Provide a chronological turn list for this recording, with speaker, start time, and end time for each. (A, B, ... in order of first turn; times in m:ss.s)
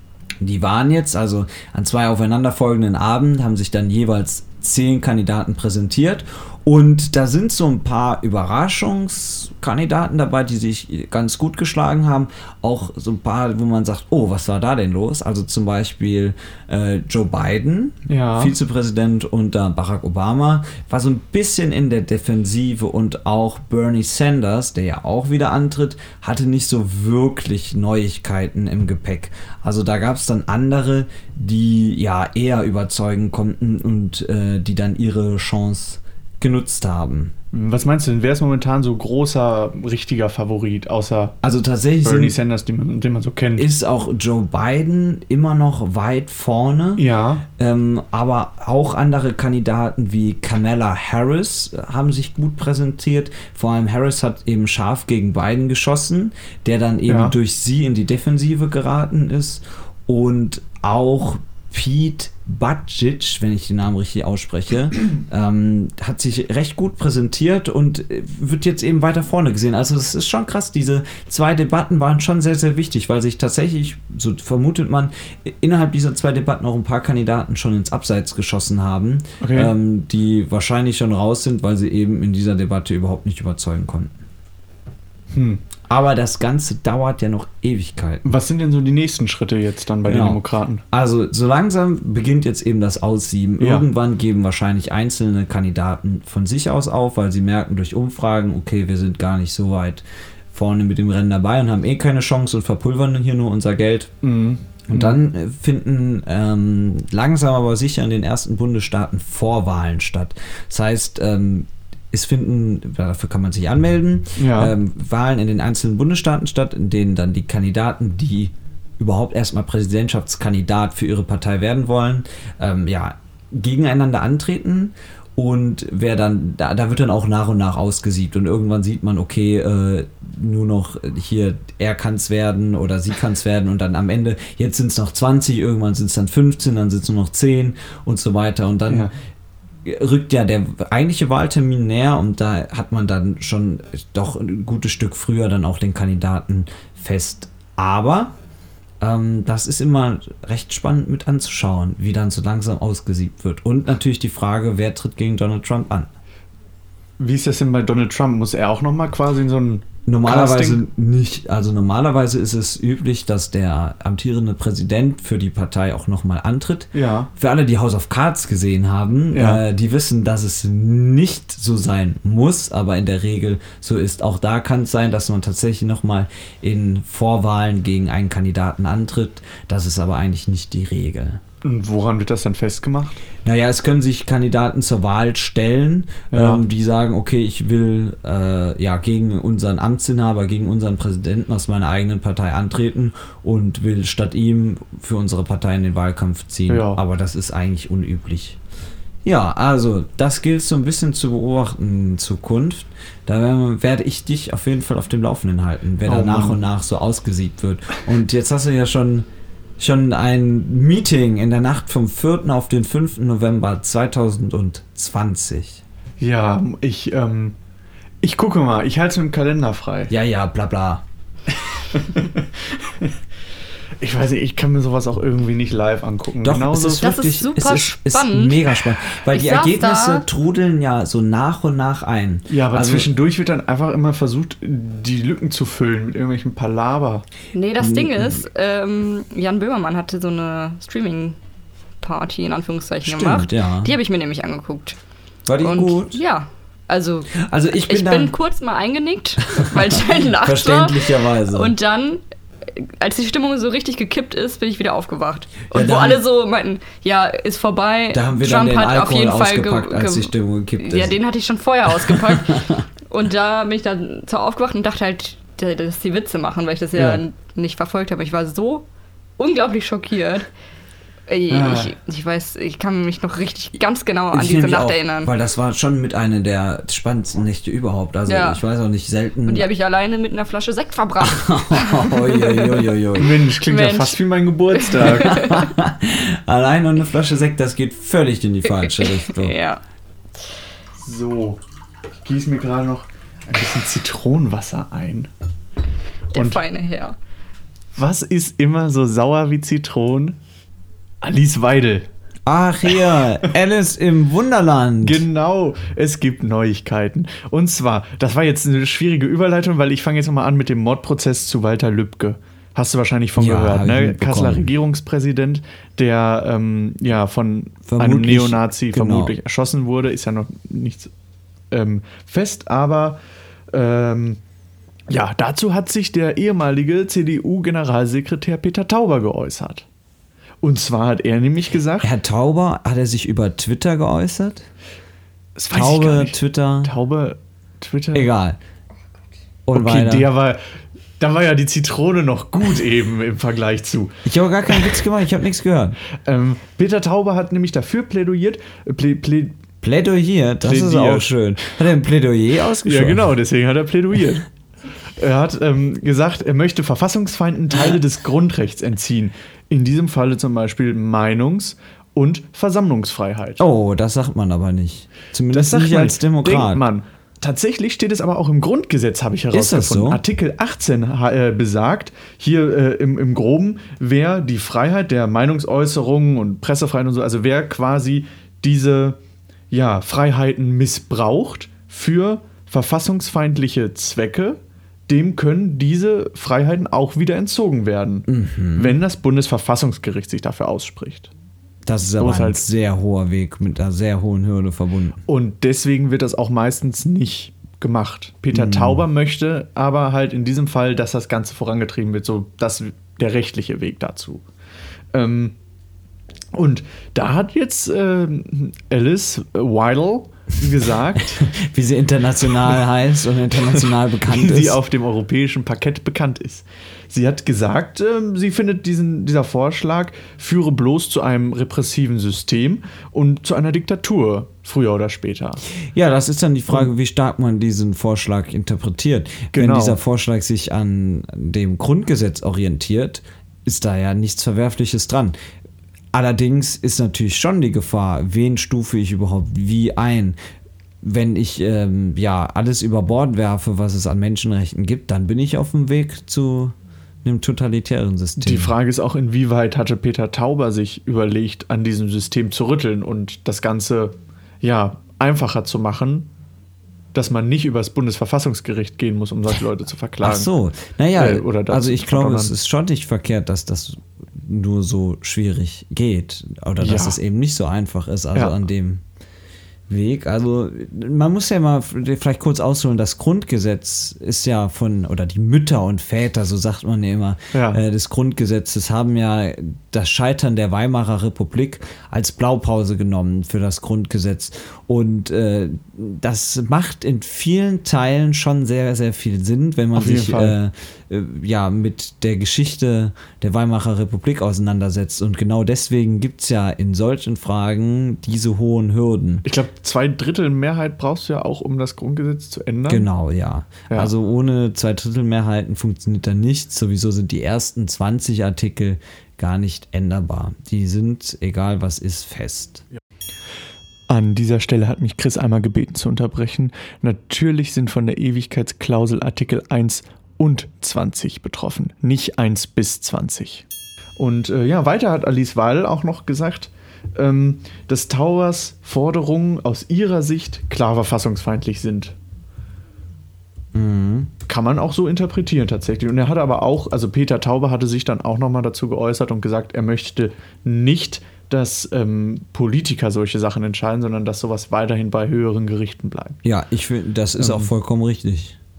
0:00.4-0:37.3 A
0:18.0-0:18.5 B
0:37.5-0:41.4 B
0:41.4-0:42.4 A
0:42.0-0:43.7 B
0:43.6-0:47.0 A
0:47.0-0:47.4 B
0:47.6-1:24.1 A
0:57.1-0:57.4 B
1:19.4-1:19.7 B
1:25.3-1:25.6 B
1:25.9-1:28.2 A
1:28.2-1:30.8 B
1:30.0-1:44.1 A
1:33.6-1:33.9 B
1:44.2-1:45.2 B
1:44.9-2:19.1 A
1:54.4-1:54.7 B
2:19.8-2:28.3 A
2:29.0-2:36.1 A
2:37.2-2:40.8 B
2:40.0-3:01.4 A
2:46.9-2:47.3 B
2:49.3-2:49.6 B
3:01.6-3:03.2 B
3:03.4-3:18.6 A
3:06.3-3:06.6 B
3:16.7-3:17.0 B
3:19.2-3:29.3 A
3:26.0-3:26.6 B
3:29.8-3:35.8 A
3:36.2-3:37.6 B
3:38.2-3:40.1 B
3:40.1-3:41.0 A
3:41.6-3:43.1 B
3:44.0-3:47.1 B
3:46.4-3:53.1 A
3:47.0-3:50.3 C
3:52.5-3:57.2 B
3:57.5-4:01.4 C
3:57.8-3:58.4 A
4:02.0-4:05.0 C
4:03.0-4:03.9 A
4:05.5-4:06.2 A
4:05.6-4:28.8 C
4:07.4-4:08.3 A
4:09.5-4:11.7 A
4:15.7-4:16.2 A
4:18.1-4:21.2 A
4:22.1-4:22.8 A
4:27.0-4:27.2 B
4:29.4-4:30.5 C
4:31.3-4:35.3 C
4:31.5-4:31.9 B
4:34.3-4:39.7 A
4:38.3-4:38.6 C
4:39.5-4:44.2 C
4:41.2-4:43.3 A
4:43.2-4:45.5 B
4:44.7-4:45.7 C
4:45.0-4:49.5 A
4:48.6-4:49.8 C
4:51.0-4:51.6 B
4:52.2-4:55.3 B
4:56.3-4:57.2 C
4:56.3-4:56.6 B
4:57.9-5:00.4 B
5:01.2-5:02.1 B
5:02.4-5:05.2 A
5:05.0-5:21.1 B
5:13.4-5:14.7 A
5:17.8-5:19.3 A
5:21.7-5:24.4 B
5:25.1-5:29.8 B
5:30.6-5:32.1 B
5:32.0-5:34.6 A
5:35.6-5:38.3 B
5:35.7-5:36.9 A
5:38.1-5:38.6 A
5:39.6-5:40.3 A
5:39.7-5:40.6 B
5:41.2-5:44.2 B
5:44.2-5:46.0 A
5:46.2-5:49.6 B
5:49.8-5:53.3 A
5:50.6-5:51.3 B
5:52.8-5:54.4 B
5:55.2-6:03.6 B
6:03.6-6:06.8 A
6:05.5-6:19.2 B
6:09.5-6:10.2 A
6:19.7-6:31.3 B
6:28.3-6:29.0 A
6:31.8-6:35.2 A
6:32.2-6:32.6 B
6:35.3-6:44.4 B
6:38.5-6:39.0 A
6:45.1-6:45.6 B
6:46.5-6:51.5 B
6:51.4-6:54.8 A
6:53.7-7:05.6 B
7:05.9-7:15.4 A
7:09.5-7:10.0 B
7:16.1-7:20.4 A
7:21.0-7:28.7 A
7:28.4-7:36.3 B
7:37.1-7:40.5 B
7:40.2-7:49.0 A
7:41.2-7:42.5 B
7:46.8-7:47.2 B
7:49.9-8:19.4 A
7:57.5-7:57.8 B
8:09.9-8:10.6 B
8:19.4-8:23.1 B
8:22.9-8:32.8 A
8:34.1-8:43.6 B
8:44.2-8:52.1 B
8:53.7-8:54.3 A
8:54.5-9:06.4 B
9:06.4-9:08.6 A
9:07.4-9:07.7 B